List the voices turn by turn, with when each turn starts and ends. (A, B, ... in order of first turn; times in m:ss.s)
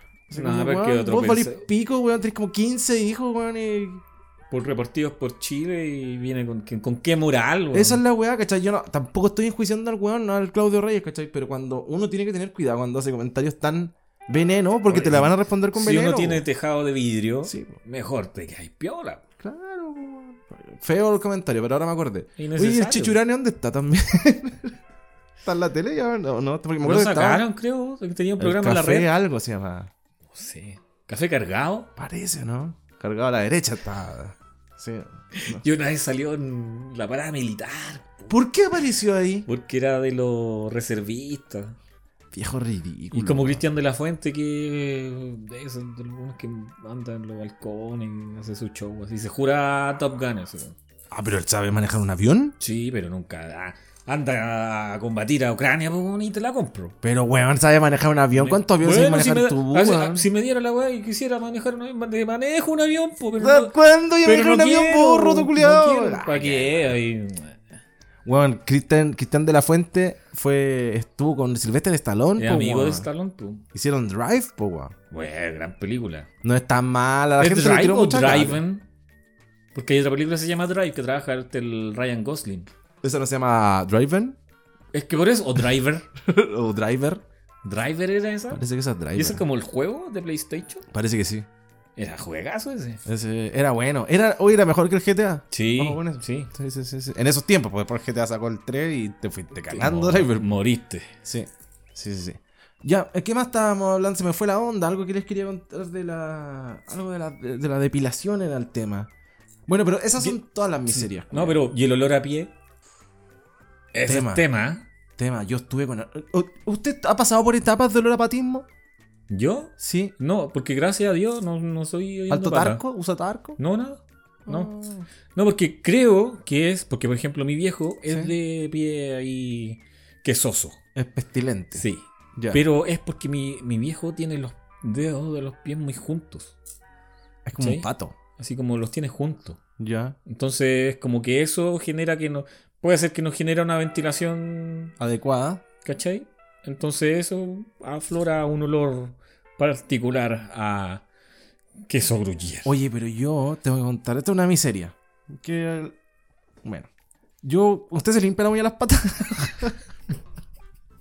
0:00.3-0:04.0 A
0:00.3-0:01.6 B
0:04.5-0:08.0 B
0:07.7-0:16.4 A
0:14.9-0:19.2 B
0:17.4-0:17.8 A
0:19.4-0:24.7 A
0:22.4-0:23.2 B
0:25.4-0:27.4 A
0:26.8-0:29.1 B
0:28.4-0:29.9 A
0:30.3-0:31.9 B
0:32.0-0:35.6 A
0:35.3-0:38.3 B
0:38.3-0:39.5 A
0:39.4-0:41.8 B
0:42.3-0:43.6 A
0:43.1-0:50.8 B
0:51.1-0:52.6 A
0:52.6-0:57.0 B
0:57.0-1:00.3 A
0:58.3-1:07.6 B
1:03.4-1:07.0 A
1:08.2-1:13.1 A
1:12.4-1:13.6 B
1:13.7-1:14.9 A
1:15.1-1:16.3 B
1:16.4-1:18.6 A
1:17.4-1:18.8 B
1:19.7-1:22.7 B
1:23.0-1:24.4 A
1:24.9-1:26.1 B
1:26.2-1:27.2 A
1:27.6-1:30.8 B
1:28.5-1:29.4 A
1:30.9-1:31.5 A
1:32.0-1:33.0 B
1:33.0-1:40.5 A
1:35.5-1:36.5 B
1:39.7-1:41.1 B
1:41.2-1:49.1 A
1:49.7-1:51.6 A
1:50.2-1:52.5 B
1:53.9-1:54.9 B
1:54.1-1:54.4 A
1:55.2-1:58.7 A
1:59.3-2:02.8 B
1:59.8-2:00.1 A
2:02.3-2:03.6 A
2:03.6-2:04.7 B
2:04.4-2:05.1 A
2:05.3-2:10.8 B
2:08.0-2:08.3 A
2:10.9-2:11.8 A
2:11.7-2:16.5 B
2:12.4-2:12.6 A
2:17.4-2:18.2 A
2:17.6-2:19.6 B
2:19.8-2:20.2 A
2:20.2-2:24.9 B
2:25.0-2:25.6 A
2:25.8-2:31.0 B
2:31.9-2:32.7 B
2:32.6-2:35.9 A
2:36.6-2:36.9 A
2:37.4-2:39.8 A